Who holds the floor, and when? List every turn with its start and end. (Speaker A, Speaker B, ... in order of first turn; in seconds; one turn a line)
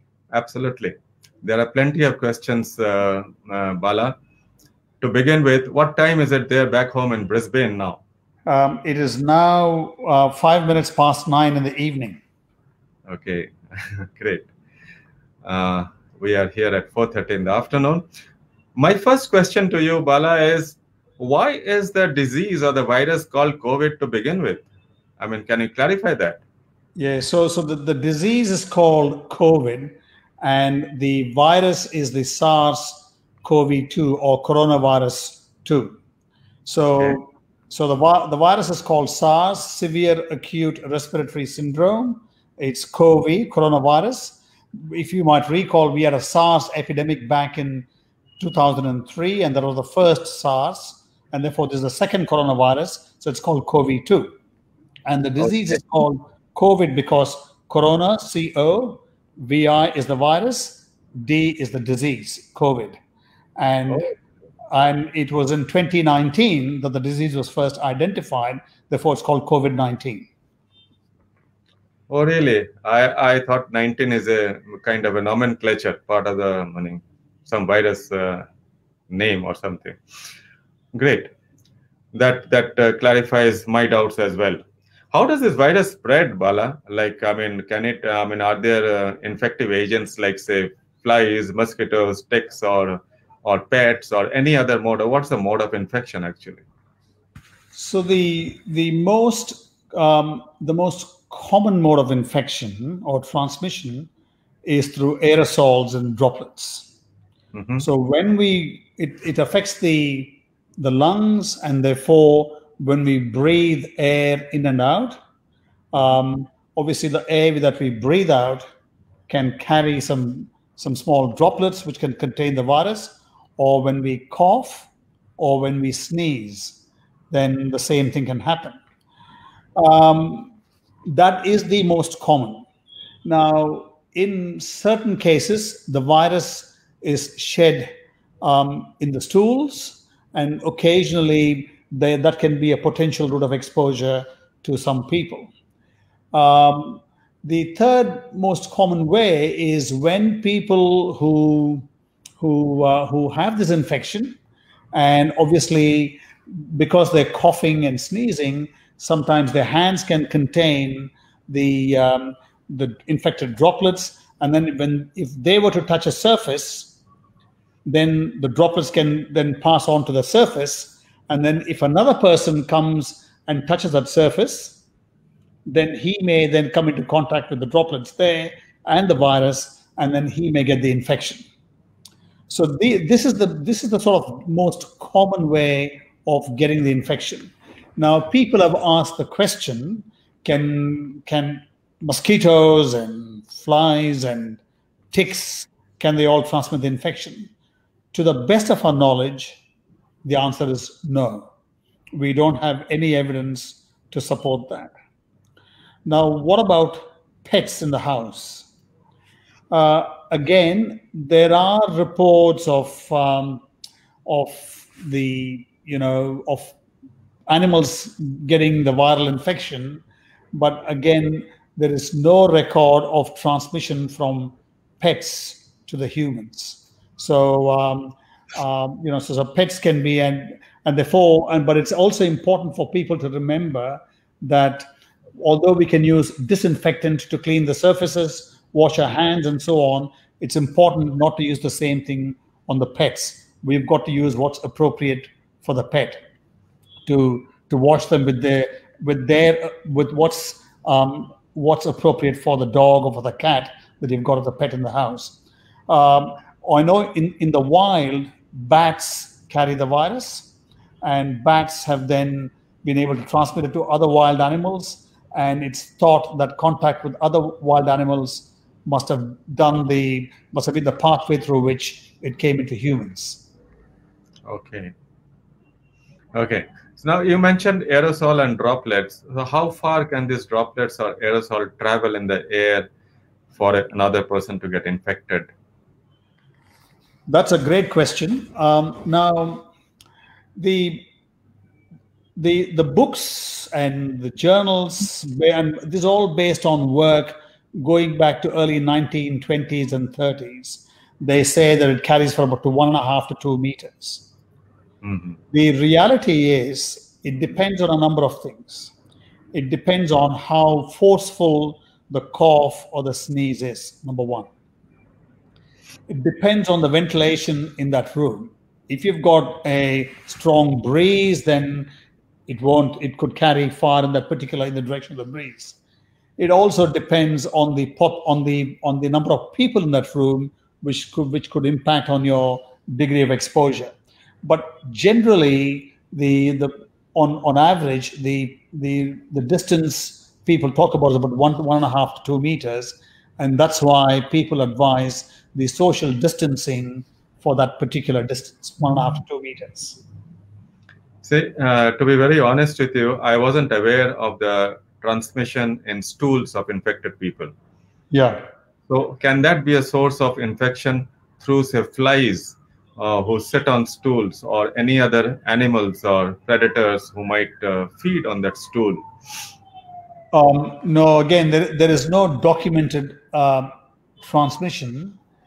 Speaker A: 0.3-4.2
Speaker A: 5.0-8.0
Speaker B: 8.4-12.2
Speaker A: 13.1-14.5
Speaker A: 15.4-18.1
Speaker A: 18.8-24.6
Speaker A: 25.2-26.4
Speaker B: 26.9-36.0
Speaker B: 36.6-47.9
Speaker B: 48.4-54.3
Speaker B: 55.0-63.0
Speaker B: 63.6-64.1
Speaker B: 64.7-70.3
Speaker A: 72.1-78.5
Speaker A: 79.1-80.0
Speaker A: 80.9-81.3
Speaker A: 82.1-84.6
Speaker A: 85.1-96.6
Speaker B: 97.7-104.1
Speaker B: 104.6-106.9
Speaker A: 107.5-107.8
Speaker B: 107.8-115.2
Speaker B: 115.9-118.7
Speaker B: 119.3-126.8
Speaker B: 127.3-128.8
Speaker B: 129.8-130.5
Speaker B: 131.1-132.6
Speaker B: 133.2-145.5
Speaker B: 146.3-151.8
Speaker B: 152.4-154.4
Speaker B: 154.9-166.9
Speaker B: 167.8-174.8
Speaker B: 175.7-181.4
Speaker B: 182.5-194.6
Speaker B: 195.1-197.5
Speaker B: 198.1-199.6
Speaker B: 200.2-201.5
Speaker B: 202.1-204.9
Speaker B: 206.1-208.7
Speaker B: 209.7-213.6
Speaker B: 214.2-216.8
Speaker B: 217.5-246.2
Speaker B: 247.1-273.4
Speaker A: 274.4-274.9
Speaker A: 276.3-282.9
Speaker A: 283.5-285.5
Speaker B: 287.3-289.7
Speaker B: 290.6-291.1
Speaker B: 292.4-304.3
Speaker A: 305.0-305.4
Speaker B: 305.5-308.9
Speaker B: 309.5-314.5
Speaker B: 316.1-321.9
Speaker B: 322.5-325.8
Speaker B: 326.4-350.0
Speaker A: 351.2-357.5
Speaker B: 358.1-358.4
Speaker A: 358.9-369.0
Speaker B: 370.3-373.7
Speaker B: 374.2-375.2